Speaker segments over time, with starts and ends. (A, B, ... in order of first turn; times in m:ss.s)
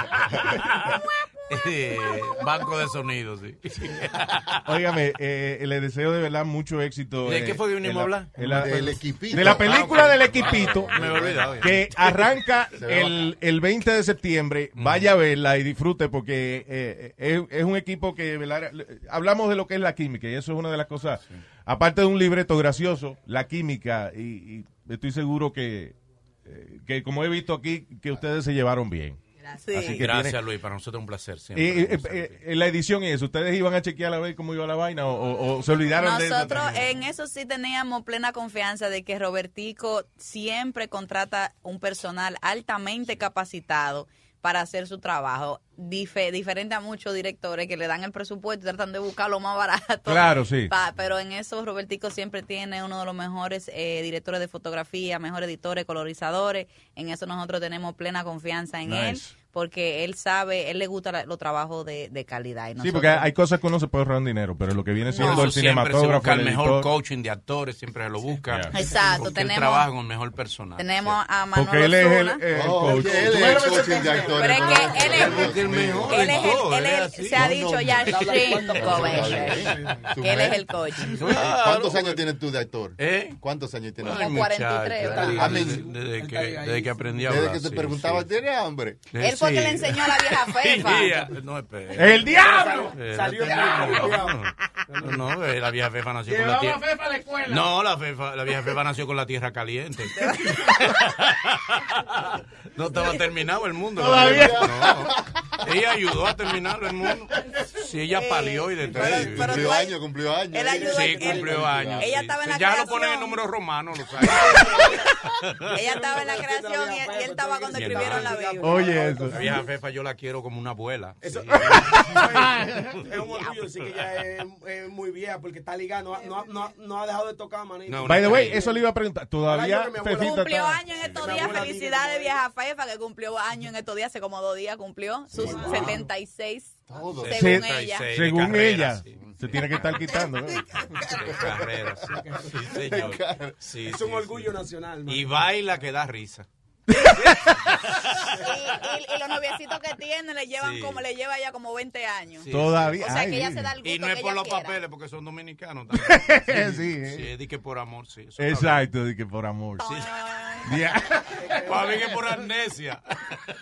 0:00.9-0:02.3 A
0:01.5-0:04.6 B
0:04.6-0:29.2 C
0:07.2-0:12.2 B
0:08.4-0:13.3 D
0:14.8-0:15.1 B
0:29.5-0:30.1 A
0:29.7-0:30.4 C
0:29.8-0:32.4 B
0:31.5-0:36.9 C
0:35.9-1:03.3 A
0:50.1-0:50.7 C
0:58.8-0:59.4 C
1:02.8-1:07.0 C
1:05.1-1:05.5 A
1:05.2-1:11.1 B
1:08.5-1:08.7 C
1:08.7-1:09.9 A
1:10.8-1:12.4 A
1:11.5-1:14.8 C
1:12.5-1:16.5 D
1:13.7-1:14.3 E
1:14.0-1:14.3 B
1:14.2-1:15.5 A
1:14.9-1:17.5 B
1:16.0-1:21.2 A
1:17.4-1:24.4 D
1:18.1-1:20.0 E
1:19.0-1:19.5 C
1:21.1-1:22.2 B
1:23.0-1:23.4 B
1:24.0-1:28.3 B
1:24.0-1:25.8 A
1:25.0-1:27.0 E
1:27.2-1:29.0 D
1:29.1-1:42.2 B
1:29.2-1:31.3 A
1:31.9-1:32.9 C
1:32.5-1:34.3 E
1:33.6-1:34.1 C
1:34.9-1:35.2 E
1:40.1-1:40.8 A
1:42.7-1:49.7 B
1:43.0-1:43.2 A
1:44.0-1:44.7 C
1:44.0-1:45.3 D
1:48.1-1:53.4 A
1:48.9-1:52.1 D
1:50.6-1:51.7 E
1:50.9-1:55.8 B
1:54.2-1:55.2 A
1:54.3-1:55.0 E
1:55.7-1:59.0 A
1:55.7-1:59.6 E
1:57.7-1:58.4 B
1:58.6-1:59.5 C
1:59.3-2:01.8 B
2:01.2-2:08.8 E
2:01.5-2:02.9 C
2:03.2-2:03.7 A
2:06.2-2:06.5 A
2:07.9-2:08.6 B
2:08.0-2:10.8 C
2:09.4-2:10.5 E
2:10.2-2:16.8 A
2:11.1-2:12.3 E
2:15.4-2:16.0 E
2:16.9-2:17.5 D
2:17.1-2:19.2 B
2:17.3-2:18.1 A
2:17.3-2:20.7 C
2:19.2-2:19.6 D
2:20.1-2:21.1 A
2:21.0-2:24.5 B
2:22.3-2:23.6 D
2:23.8-2:25.3 E
2:25.1-2:26.5 B
2:26.9-2:27.7 C
2:27.1-2:28.3 B
2:28.3-2:34.8 A
2:30.6-2:31.0 B
2:32.4-2:33.0 B
2:32.5-2:33.7 C
2:33.8-2:38.9 B
2:35.9-2:37.3 C
2:38.4-2:39.9 C
2:39.8-2:40.8 A
2:39.8-2:40.1 B
2:40.6-2:42.1 C
2:41.6-2:43.0 B